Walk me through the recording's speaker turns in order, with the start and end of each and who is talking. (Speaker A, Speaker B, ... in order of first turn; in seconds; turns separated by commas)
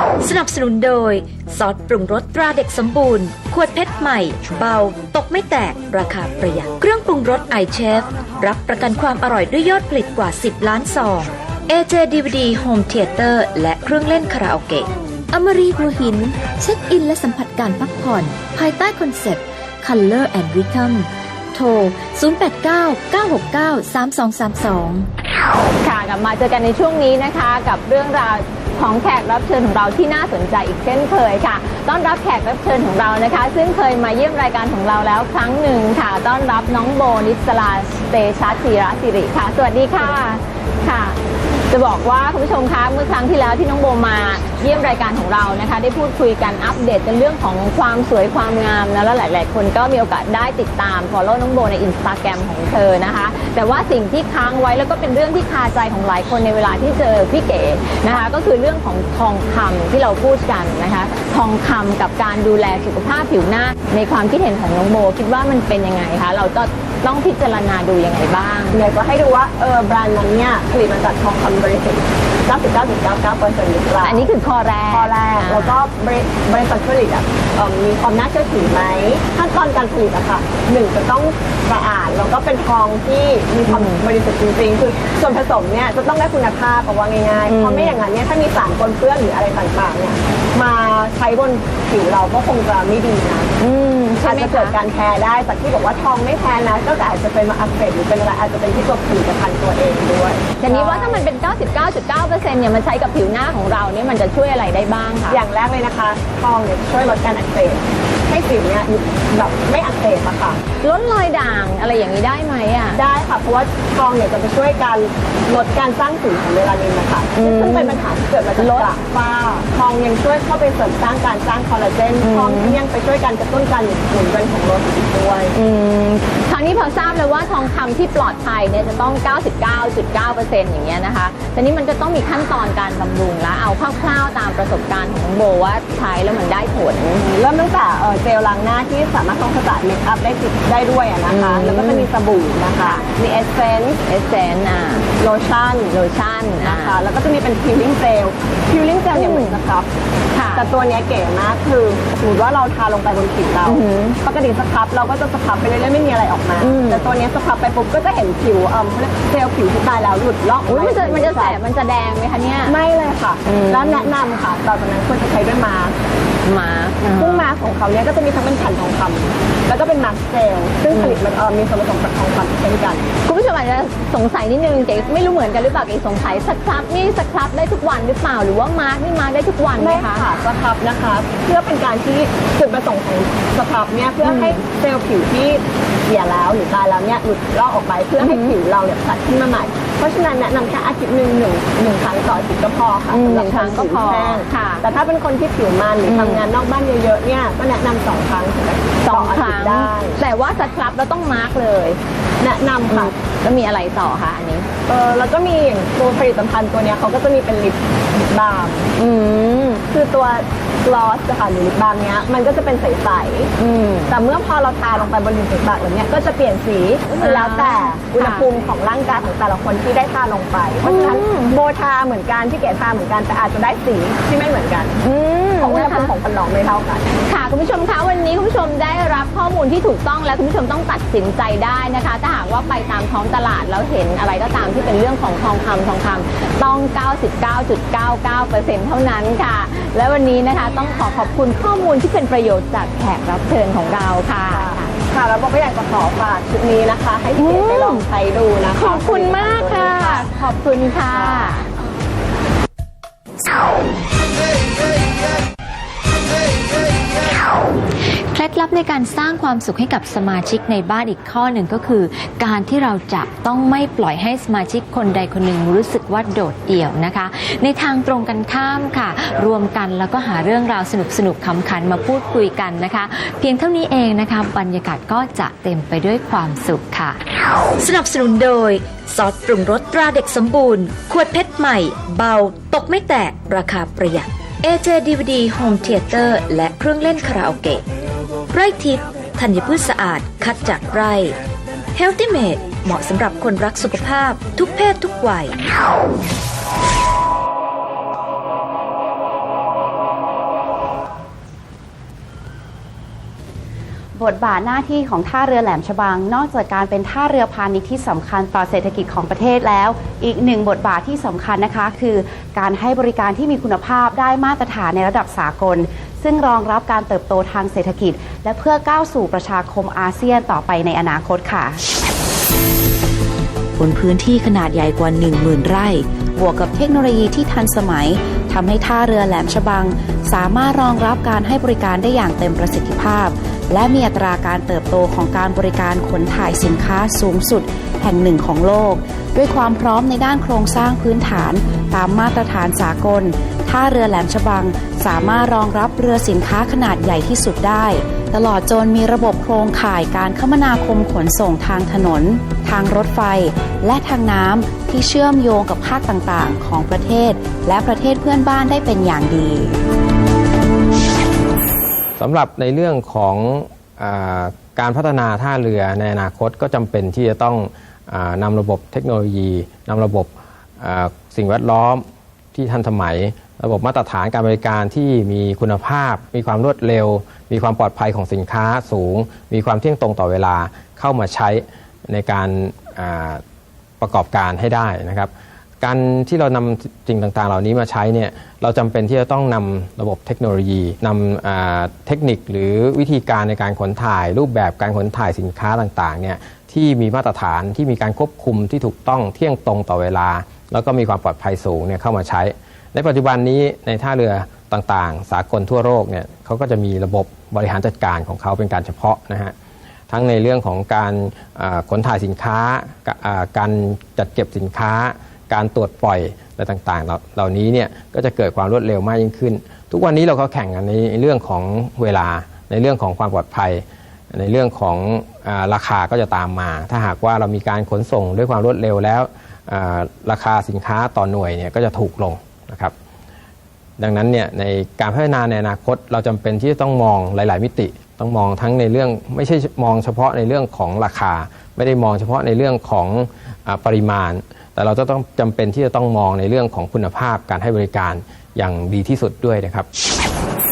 Speaker A: 0.2-14.9, Speaker B: 15.4-15.6, Speaker A: 15.5-16.5, Speaker B: 16.5-25.1, Speaker C: 25.8-41.2, Speaker C: 41.7-68.8, Speaker D: 68.7-74.3, Speaker C: 74.0-75.8, Speaker D: 74.9-93.5, Speaker C: 83.7-84.0, Speaker C: 87.5-88.0, Speaker C: 93.6-94.8, Speaker D: 94.2-101.2, Speaker C: 100.6-105.4, Speaker D: 105.3-110.6, Speaker C: 110.8-113.0, Speaker D: 112.9-125.5, Speaker C: 117.4-118.0, Speaker C: 118.6-118.9, Speaker C: 122.2-122.8, Speaker C: 125.5-137.2, Speaker D: 137.3-144.0, Speaker C: 141.3-142.1, Speaker C: 144.1-145.1, Speaker D: 145.2-146.0, Speaker C: 145.9-147.0, Speaker D: 146.6-149.9, Speaker C: 149.1-149.6, Speaker C: 150.3-150.6, Speaker D: 150.6-161.6, Speaker C: 153.7-154.2, Speaker C: 156.6-157.0, Speaker C: 160.7-162.8, Speaker D: 162.7-166.0, Speaker C: 163.5-164.1, Speaker C: 166.4-167.5, Speaker D: 167.2-173.1, Speaker C: 170.9-171.2, Speaker C: 173.3-180.2, Speaker D: 179.8-200.2, Speaker C: 184.2-184.6, Speaker C: 188.2-188.6, Speaker C: 193.1-194.8, Speaker C: 196.1-196.4, Speaker C: 199.0-202.0, Speaker D: 202.4-203.1, Speaker C: 202.9-204.7, Speaker D: 204.9-208.9, Speaker C: 209.0-209.8, Speaker D: 209.9-213.5, Speaker C: 213.6-214.2, Speaker D: 214.1-224.9, Speaker C: 217.2-218.5, Speaker C: 220.8-221.5, Speaker C: 225.0-226.1, Speaker D: 225.6-227.1, Speaker C: 227.3-244.9, Speaker D: 244.5-250.3, Speaker C: 247.4-248.1, Speaker C: 248.8-251.7, Speaker B: 258.3-277.2, Speaker A: 277.8-287.8, Speaker A: 288.5-291.4, Speaker A: 291.9-295.6, Speaker E: 304.2-321.8, Speaker E: 323.8-359.8, Speaker F: 362.2-383.4, Speaker F: 384.0-385.3, Speaker F: 385.8-409.5, Speaker F: 410.1-432.9, Speaker F: 434.0-449.9